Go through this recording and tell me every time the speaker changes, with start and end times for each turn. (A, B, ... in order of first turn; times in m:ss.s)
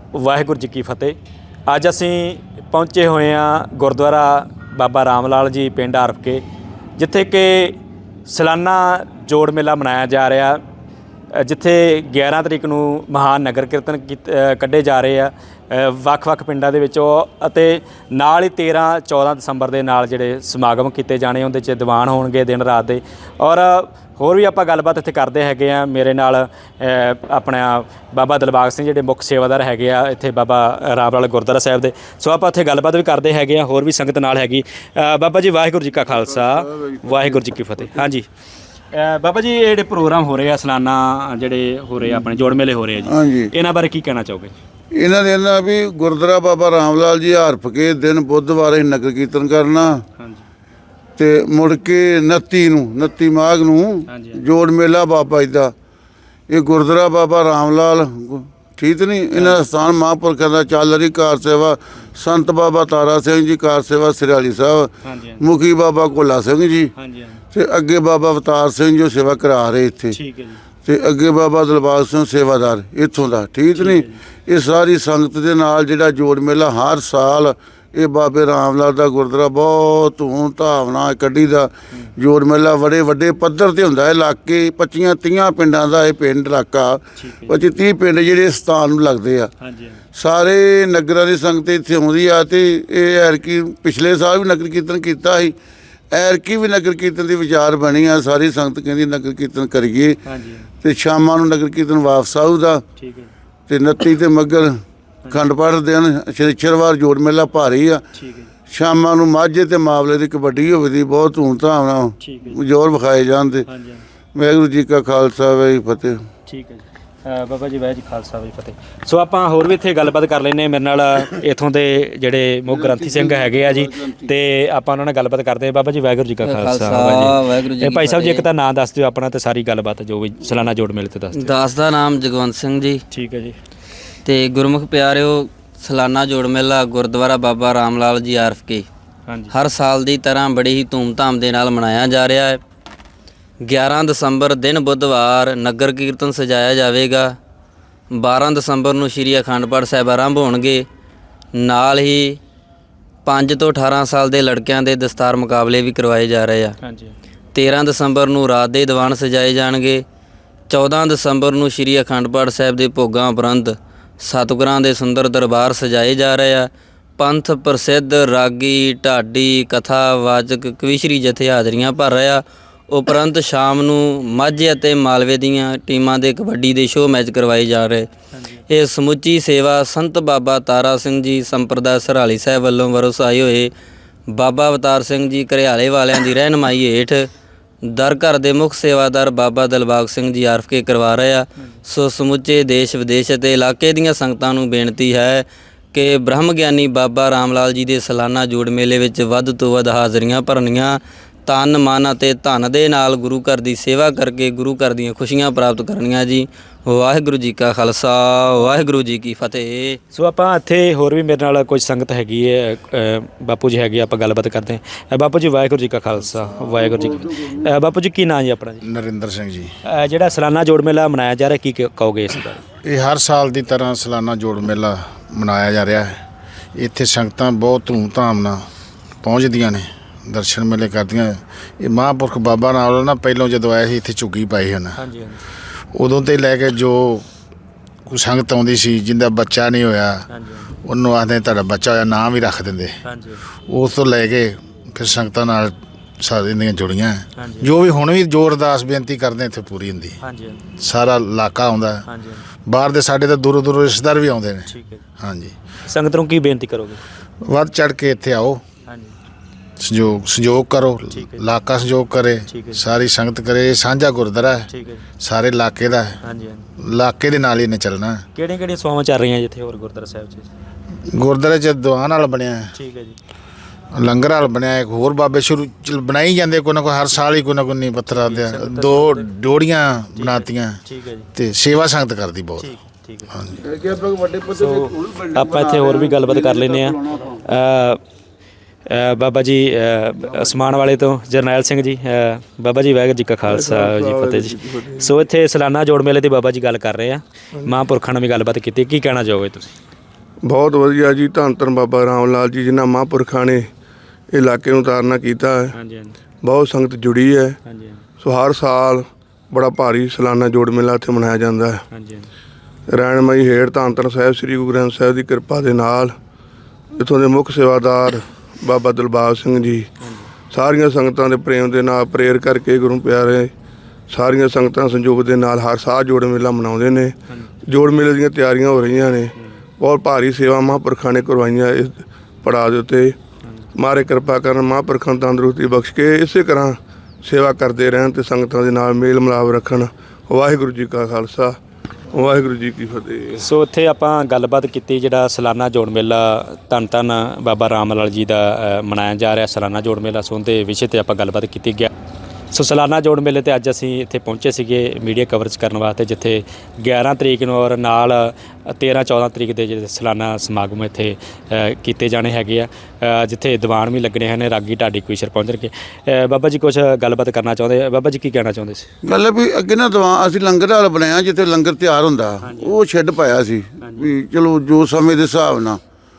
0:00.2-0:06.4 A
0:07.0-0:10.6 A
0:11.4-0:38.3 A
0:36.0-0:38.0 B
0:38.9-0:44.6 A
0:43.0-0:43.5 B
0:44.9-0:50.0 B
0:50.2-0:50.4 A
0:51.2-0:55.7 B
0:54.1-0:54.4 A
0:56.5-1:06.9 B
0:59.4-0:59.7 A
1:05.0-1:05.4 A
1:07.0-1:07.4 A
1:07.5-1:10.2 B
1:10.1-1:10.6 A
1:10.8-1:29.5 B
1:13.7-1:14.2 A
1:27.2-1:27.6 A
1:29.6-1:30.0 A
1:30.2-1:35.6 B
1:36.1-1:40.2 B
1:40.2-1:40.7 A
1:40.8-1:42.8 B
1:43.0-1:43.3 A
1:43.7-1:48.0 B
1:48.1-1:48.5 A
1:48.7-1:53.6 B
1:52.2-1:52.6 A
1:53.7-1:54.0 A
1:54.3-1:56.2 B
1:56.5-2:11.6 A
2:02.7-2:04.3 B
2:06.4-2:08.4 C
2:11.3-2:13.0 C
2:13.1-2:13.6 A
2:14.2-2:18.8 C
2:19.3-2:19.5 A
2:19.5-2:22.6 C
2:23.6-2:27.4 C
2:28.1-2:30.8 C
2:31.6-2:32.4 C
2:33.2-2:36.8 C
2:36.8-2:37.2 A
2:37.5-2:40.0 C
2:40.7-2:58.1 C
2:58.3-2:58.6 A
2:58.7-3:03.7 C
3:04.3-3:07.3 C
3:07.9-3:30.0 C
3:30.1-3:38.8 A
3:36.6-3:37.7 B
3:38.8-3:39.7 D
3:39.9-3:42.6 A
3:42.8-3:46.2 D
3:46.8-3:48.6 D
3:49.2-3:55.0 D
3:55.0-3:55.4 A
3:55.9-3:57.2 D
3:58.1-4:00.2 D
4:00.3-4:00.7 A
4:00.8-4:03.0 D
4:03.0-4:03.4 A
4:03.7-4:10.2 D
4:07.4-4:07.7 A
4:10.2-4:10.6 A
4:10.8-4:12.0 D
4:12.1-4:12.4 A
4:12.7-4:15.5 D
4:14.7-4:15.0 A
4:15.8-4:17.0 A
4:17.4-4:18.6 D
4:18.9-4:19.1 A
4:19.8-4:24.7 D
4:21.1-4:21.4 A
4:22.5-4:22.8 A
4:24.7-4:25.0 A
4:25.2-4:26.2 D
4:26.2-4:26.6 A
4:26.8-4:28.2 D
4:28.3-4:30.5 A
4:31.1-4:32.7 D
4:32.7-4:33.2 A
4:33.9-4:40.8 D
4:38.1-4:39.3 A
4:40.2-4:41.3 A
4:41.3-4:42.7 D
4:42.6-4:43.3 A
4:43.3-4:43.6 D
4:43.6-4:47.4 B
4:44.6-4:48.0 A
4:48.9-4:59.7 A
4:53.4-4:55.2 E
5:00.4-5:03.7 E
5:04.3-5:05.7 E
5:05.7-5:06.1 A
5:06.4-5:07.6 E
5:07.6-5:08.0 A
5:08.2-5:11.8 E
5:11.9-5:12.3 A
5:12.9-5:16.2 E
5:16.9-5:19.9 E
5:20.0-5:20.3 A
5:20.5-5:23.5 E
5:24.1-5:27.1 E
5:27.7-5:33.2 E
5:33.7-5:41.6 E
5:42.1-5:43.5 E
5:43.4-5:51.9 A
5:52.5-6:08.9 A
6:09.0-6:15.8 B
6:12.4-6:12.8 A
6:13.8-6:14.1 A